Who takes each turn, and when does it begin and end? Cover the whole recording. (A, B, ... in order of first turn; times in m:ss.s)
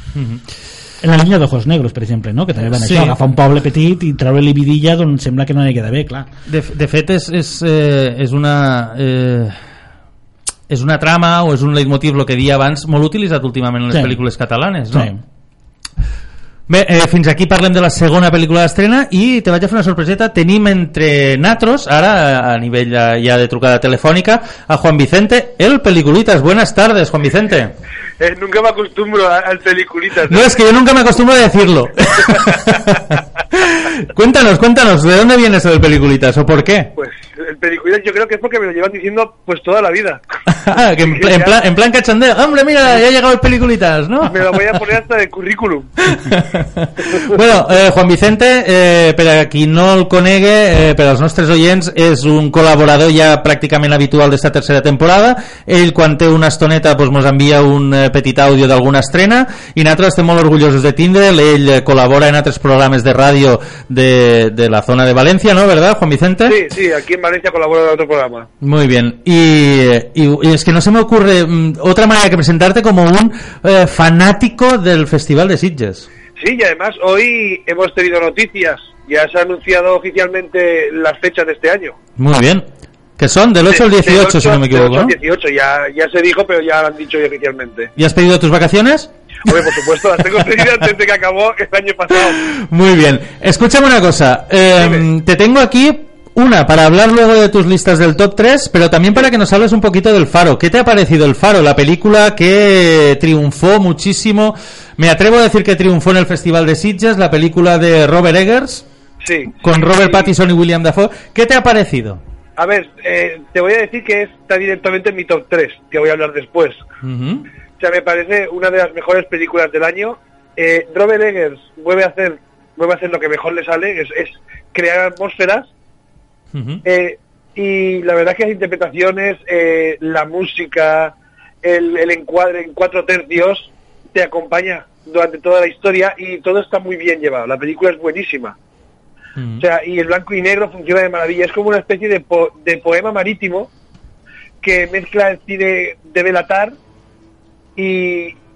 0:00.2-0:00.4 A
0:01.0-0:06.3 B
0:02.7-0:03.2 A
0:06.5-0:09.6 A
0:10.7-0:15.1 A
0:13.9-0:14.2 B
0:14.9-0:15.2 B
0:16.7-0:27.8 A
0:28.2-0:30.5 C
0:30.3-0:36.9 A
0:37.0-0:40.2 C
0:40.5-0:44.6 A
0:41.0-0:41.6 C
0:44.3-0:45.9 C
0:46.1-1:06.6 A
1:06.5-1:08.5 C
1:08.6-1:16.1 A
1:16.4-1:22.0 C
1:22.2-1:22.6 A
1:23.2-1:25.1 A
1:23.7-1:27.9 C
1:28.0-1:29.5 A
1:29.5-1:32.4 C
1:32.3-1:48.8 A
1:34.8-1:35.0 C
1:49.2-1:50.3 C
1:49.6-1:52.2 A
1:52.6-1:56.8 C
1:57.0-1:57.5 A
1:57.8-2:05.7 C
2:06.5-2:06.8 A
2:06.8-2:18.6 C
2:19.4-2:19.6 A
2:19.6-2:23.7 C
2:24.6-2:26.7 C
2:27.8-2:28.4 C